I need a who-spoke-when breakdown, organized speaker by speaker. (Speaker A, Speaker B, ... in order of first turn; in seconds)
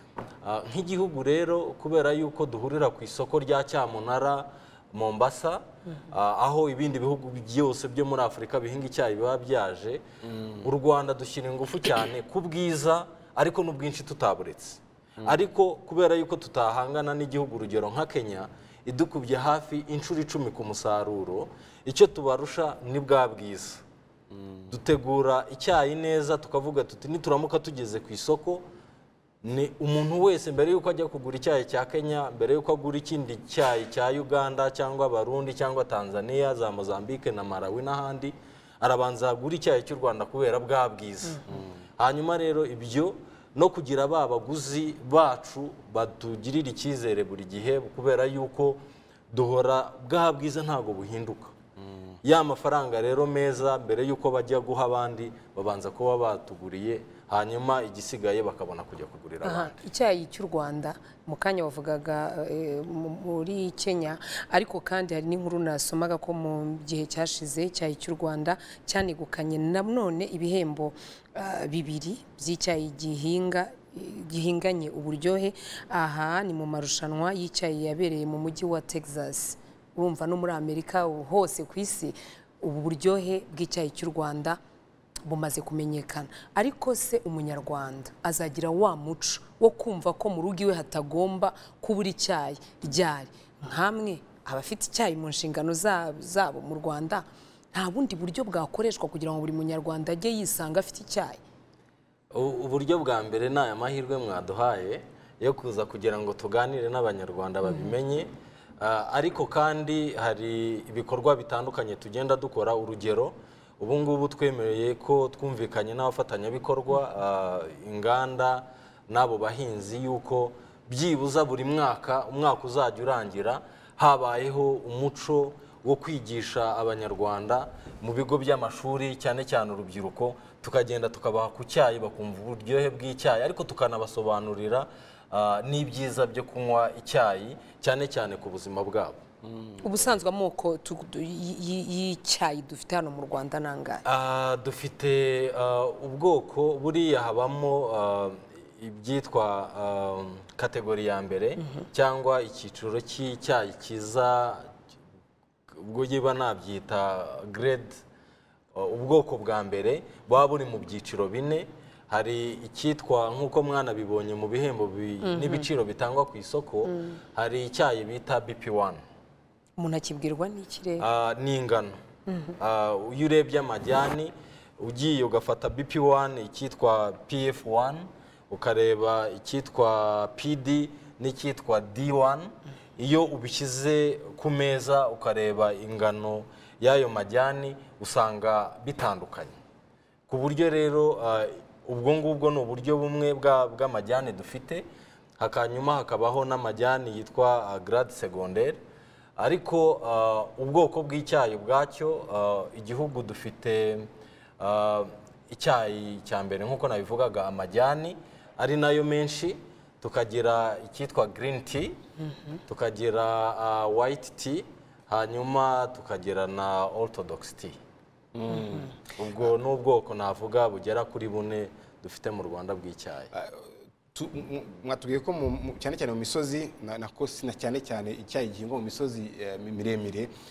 Speaker A: 0.4-10.0, 10.6-23.8, 24.7-28.6, 29.4-41.4, 42.0-51.5, 52.2-59.8, 102.3-139.2, 144.1-154.7, 155.7-158.0, 158.8-169.0, 171.0-172.0, 172.6-189.5, 190.3-194.8, 195.4-198.8, 199.4-212.0, 212.7-217.8, 219.2-223.3
Speaker B: 10.2-10.7, 24.3-24.7, 41.5-41.8, 51.8-52.1, 139.4-139.8, 218.3-218.9, 223.3-230.3
Speaker C: 59.4-84.6, 85.3-101.4, 107.7-107.9, 139.8-144.0, 165.2-165.7, 166.9-167.2, 169.8-171.1, 172.3-172.6